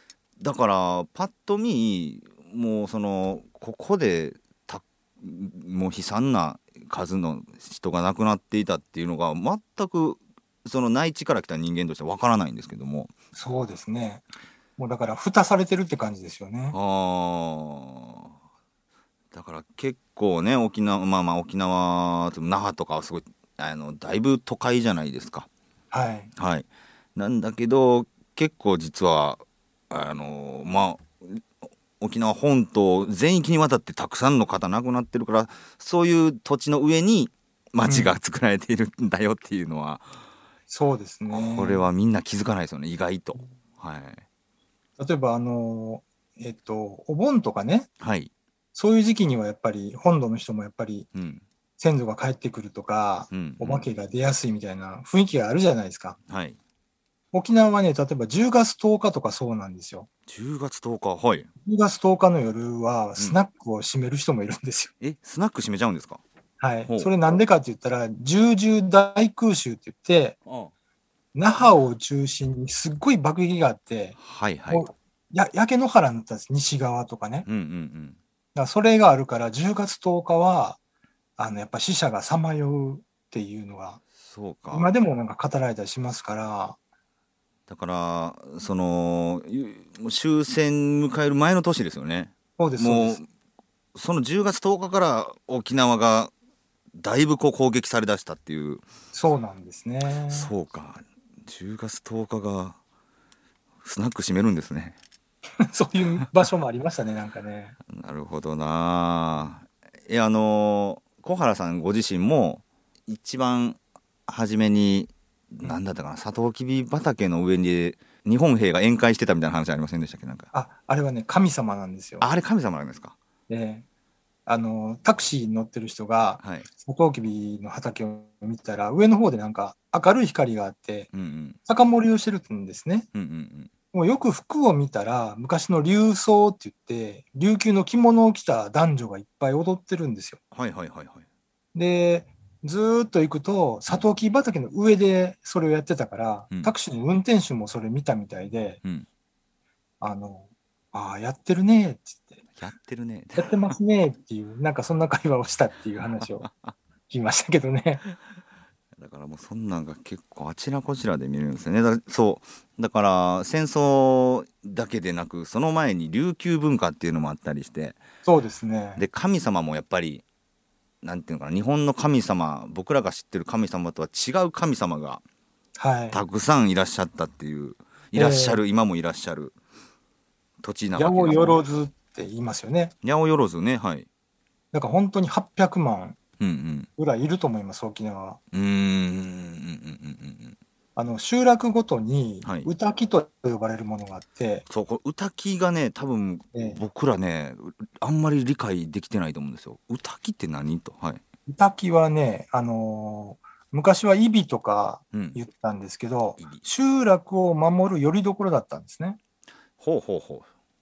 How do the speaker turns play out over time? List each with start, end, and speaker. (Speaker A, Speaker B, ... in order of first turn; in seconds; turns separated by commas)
Speaker A: 0.4-13.1, Speaker B: 13.3-14.2, Speaker B: 14.8-16.8, Speaker A: 16.7-18.3, Speaker A: 19.3-25.5, Speaker B: 25.9-26.3, Speaker A: 26.4-31.4, Speaker A: 32.0-40.1, Speaker B: 37.8-38.1, Speaker B: 40.7-41.8, Speaker A: 41.3-44.2, Speaker B: 45.0-47.9, Speaker A: 48.0-48.3, Speaker B: 48.7-51.1, Speaker A: 51.1-51.4, Speaker B: 51.8-56.2, Speaker A: 53.3-53.9, Speaker A: 56.3-56.6, Speaker B: 57.3-60.1, Speaker A: 60.3-61.5, Speaker B: 61.6-64.9, Speaker A: 65.0-66.2, Speaker B: 66.6-70.4, Speaker A: 70.5-70.7, Speaker B: 71.3-74.2, Speaker A: 74.2-74.8, Speaker B: 74.7-77.5, Speaker A: 77.5-78.2, Speaker B: 78.5-80.8, Speaker B: 81.4-84.0, Speaker A: 84.2-84.9, Speaker B: 84.7-86.8, Speaker A: 87.7-93.2, Speaker B: 92.6-93.2, Speaker A: 93.9-96.3, Speaker A: 97.0-98.8, Speaker B: 99.1-100.5, Speaker A: 100.3-102.8, Speaker A: 103.8-105.0, Speaker B: 105.6-107.7, Speaker A: 107.9-120.5, Speaker B: 120.5-122.2, Speaker A: 122.2-123.2, Speaker B: 123.5-123.8, Speaker B: 124.5-131.1, Speaker A: 126.4-126.7, Speaker A: 131.1-131.6, Speaker B: 131.7-133.1, Speaker A: 133.1-133.7, Speaker B: 133.9-140.4, Speaker A: 140.5-141.2, Speaker B: 141.7-148.8, Speaker B: 150.0-152.4, Speaker A: 152.6-153.7, Speaker B: 153.3-156.5, Speaker A: 156.2-156.7, Speaker B: 157.1-158.0, Speaker A: 158.9-168.0, Speaker B: 168.2-169.0, Speaker A: 169.0-170.2, Speaker A: 171.0-175.2, Speaker B: 175.8-176.2, Speaker A: 176.1-179.5, Speaker B: 178.1-178.6, Speaker A: 180.6-181.6, Speaker B: 180.9-182.9, Speaker A: 183.0-184.1, Speaker B: 184.7-186.2, Speaker A: 186.4-186.9, Speaker B: 187.0-188.4, Speaker A: 188.5-190.6, Speaker B: 190.9-194.6, Speaker A: 192.4-192.7, Speaker A: 194.7-201.2, Speaker B: 196.5-196.8, Speaker B: 201.5-209.2, Speaker A: 205.1-205.4, Speaker A: 209.8-210.5